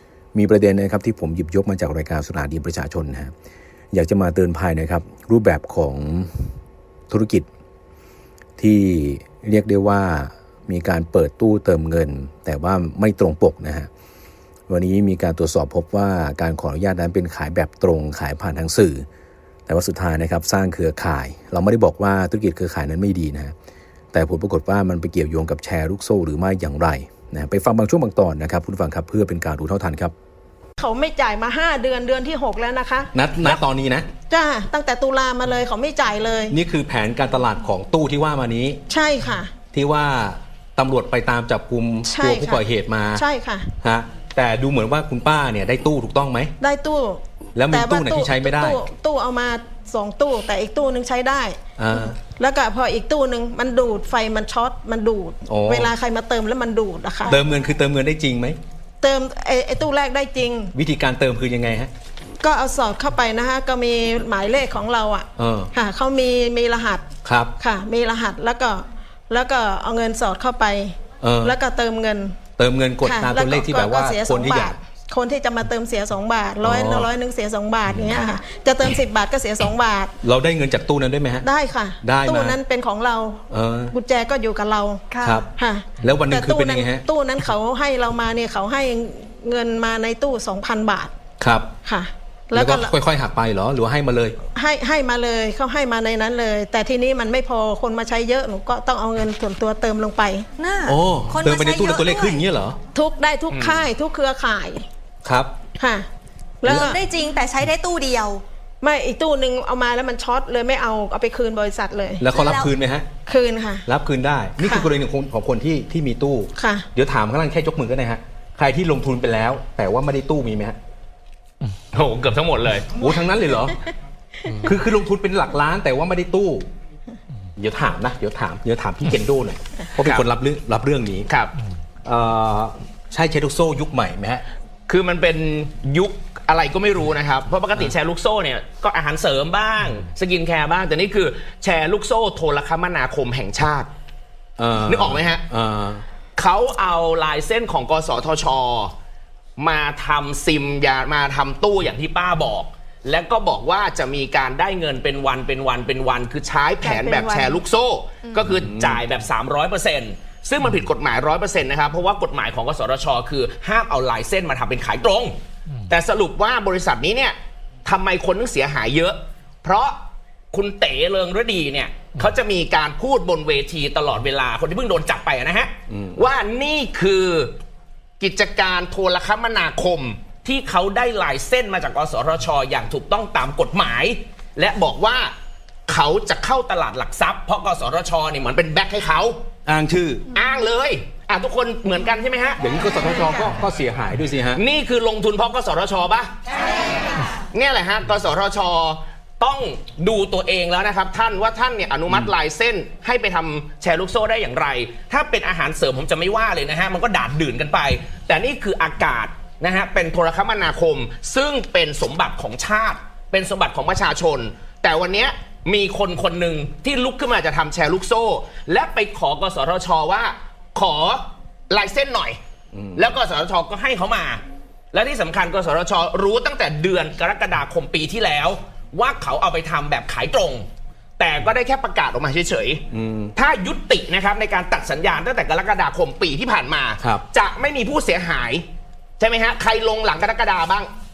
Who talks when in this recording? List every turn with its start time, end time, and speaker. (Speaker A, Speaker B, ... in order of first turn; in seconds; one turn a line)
Speaker A: 0.3-3.3
Speaker A: 3.9-6.5
Speaker A: 7.1-7.5
Speaker A: 8.6-13.9
Speaker A: 14.7-19.1
Speaker A: 19.7-23.5
Speaker A: 24.1-30.1
Speaker B: 30.8-33.6
Speaker C: 33.1-34.1
Speaker B: 34.3-36.6
Speaker C: 36.5-38.8
Speaker B: 38.9-39.6
Speaker C: 39.7-43.2
Speaker B: 42.0-43.7
Speaker C: 43.8-46.5
Speaker B: 46.6-57.4
Speaker C: 47.6-48.8
Speaker C: 51.8-52.2
Speaker C: 55.5-56.0
Speaker C: 57.3-58.6
Speaker B: 59.0-60.8
Speaker C: 60.8-61.9
Speaker B: 62.4-72.4
Speaker C: 65.4-65.7
Speaker C: 67.2-67.5
Speaker C: 71.2-71.6
Speaker C: 72.6-74.8
Speaker B: 73.0-80.2
Speaker C: 76.6-77.1
Speaker C: 77.9-78.1
Speaker C: 80.2-81.5
Speaker B: 81.4-91.1
Speaker C: 82.0-82.6
Speaker C: 83.5-84.0
Speaker D: 85.1-85.5
Speaker C: 85.2-87.0
Speaker C: 91.4-91.7
Speaker B: 91.8-93.0
Speaker C: 92.5-94.4
Speaker B: 94.5-100.5
Speaker D: 100.6-102.5
Speaker C: 100.9-102.8
Speaker B: 102.9-104.9
Speaker E: 103.5-103.9
Speaker C: 105.2-105.5
Speaker B: 105.8-106.1
Speaker B: 106.6-107.0
Speaker D: 106.6-108.4
Speaker B: 108.8-112.3
Speaker C: 112.2-113.1
Speaker D: 112.3-112.7
Speaker B: 113.3-113.9
Speaker C: 113.9-120.8
Speaker B: 114.6-114.9
Speaker B: 116.6-116.9
Speaker E: 121.9-123.0
Speaker C: 123.0-123.8
Speaker C: 124.5-126.7
Speaker C: 127.6-131.3
Speaker E: 130.0-130.2
Speaker E: 131.3-131.5
Speaker C: 132.0-134.4
Speaker E: 134.9-143.9
Speaker C: 144.6-146.0
Speaker E: 144.8-145.4
Speaker E: 146.4-148.9
Speaker E: 149.6-165.4
Speaker B: 156.8-157.6
Speaker C: 158.5-159.0
Speaker E: 165.9-170.0
Speaker E: 170.5-177.5
Speaker C: 175.9-176.2
Speaker E: 178.2-185.3
Speaker E: 185.9-189.4
Speaker C: 189.7-190.3
Speaker E: 190.3-192.6
Speaker C: 192.6-194.6
Speaker E: 194.6-196.3
Speaker E: 197.4-222.4
Speaker C: 222.7-223.1
Speaker E: 223.0-238.7
Speaker C: 232.9-233.3
Speaker E: 239.2-240.9